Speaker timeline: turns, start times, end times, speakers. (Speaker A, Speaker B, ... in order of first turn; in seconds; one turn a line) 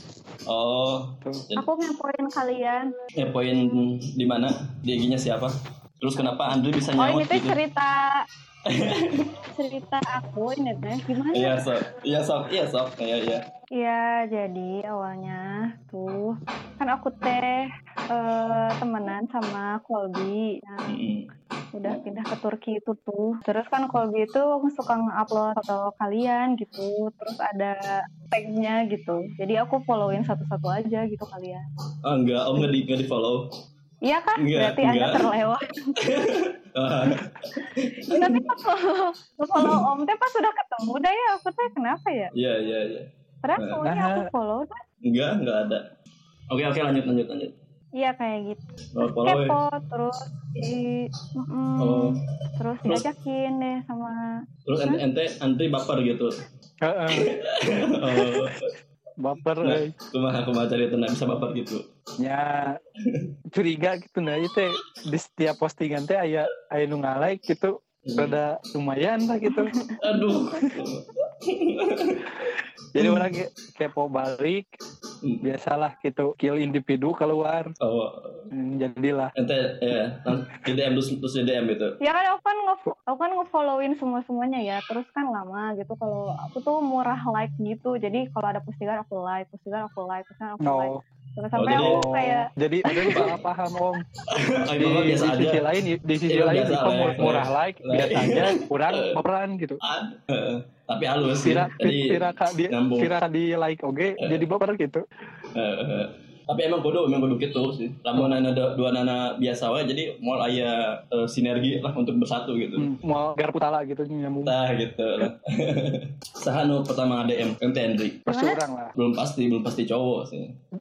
Speaker A: 0.5-1.7
Speaker B: 1.6-2.9
Speaker A: 3.1-7.6
Speaker B: 7.0-8.2
Speaker A: 8.7-9.2
Speaker B: 9.5-11.6
Speaker A: 11.3-13.4
Speaker B: 13.8-21.0
Speaker A: 20.9-21.3
Speaker B: 21.7-31.6
Speaker A: 32.0-33.5
Speaker B: 34.0-35.8
Speaker A: 34.4-35.2
Speaker A: 36.0-38.4
Speaker B: 38.1-42.3
Speaker A: 42.3-43.8
Speaker B: 43.4-44.8
Speaker C: 43.8-44.3
Speaker A: 45.0-45.9
Speaker A: 46.5-47.5
Speaker B: 48.0-54.2
Speaker A: 48.9-49.6
Speaker A: 51.8-52.2
Speaker A: 54.6-56.3
Speaker C: 56.8-57.2
Speaker A: 57.2-58.7
Speaker C: 59.2-59.9
Speaker A: 59.6-61.8
Speaker C: 62.2-62.8
Speaker C: 63.5-69.7
Speaker A: 68.0-68.4
Speaker B: 69.5-70.7
Speaker A: 70.0-72.3
Speaker C: 72.9-74.7
Speaker A: 73.0-73.2
Speaker A: 75.2-75.5
Speaker C: 75.4-77.7
Speaker A: 77.8-78.5
Speaker C: 78.5-79.3
Speaker A: 79.3-82.0
Speaker B: 82.0-92.5
Speaker C: 90.6-91.0
Speaker A: 91.5-92.0
Speaker C: 91.8-94.0
Speaker A: 92.9-93.4
Speaker A: 94.3-95.6
Speaker C: 94.8-99.8
Speaker A: 96.3-99.2
Speaker A: 99.8-103.1
Speaker C: 101.2-105.0
Speaker A: 105.5-112.9
Speaker C: 112.8-114.5
Speaker A: 114.4-118.2
Speaker C: 118.3-118.9
Speaker B: 118.3-118.6
Speaker A: 118.9-120.5